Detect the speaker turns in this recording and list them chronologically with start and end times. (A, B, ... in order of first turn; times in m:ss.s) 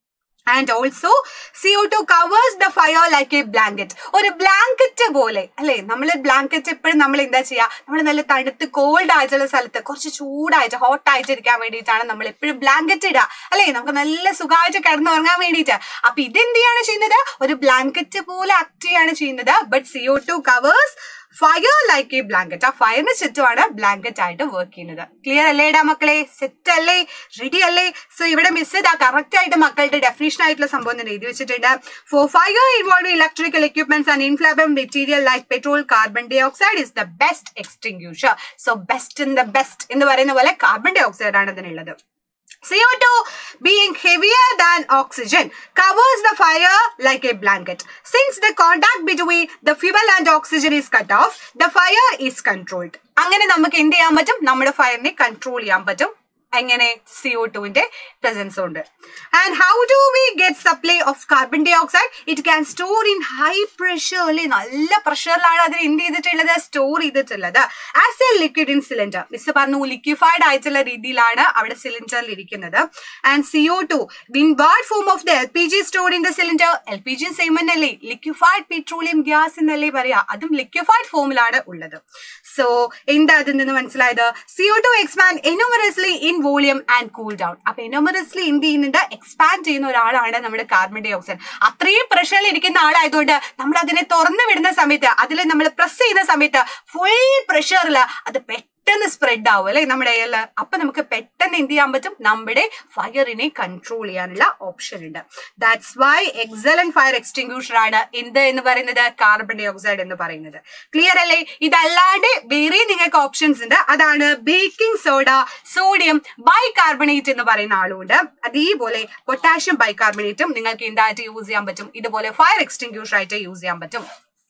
0:00.5-0:42.0 A
0:42.6-2:04.0 A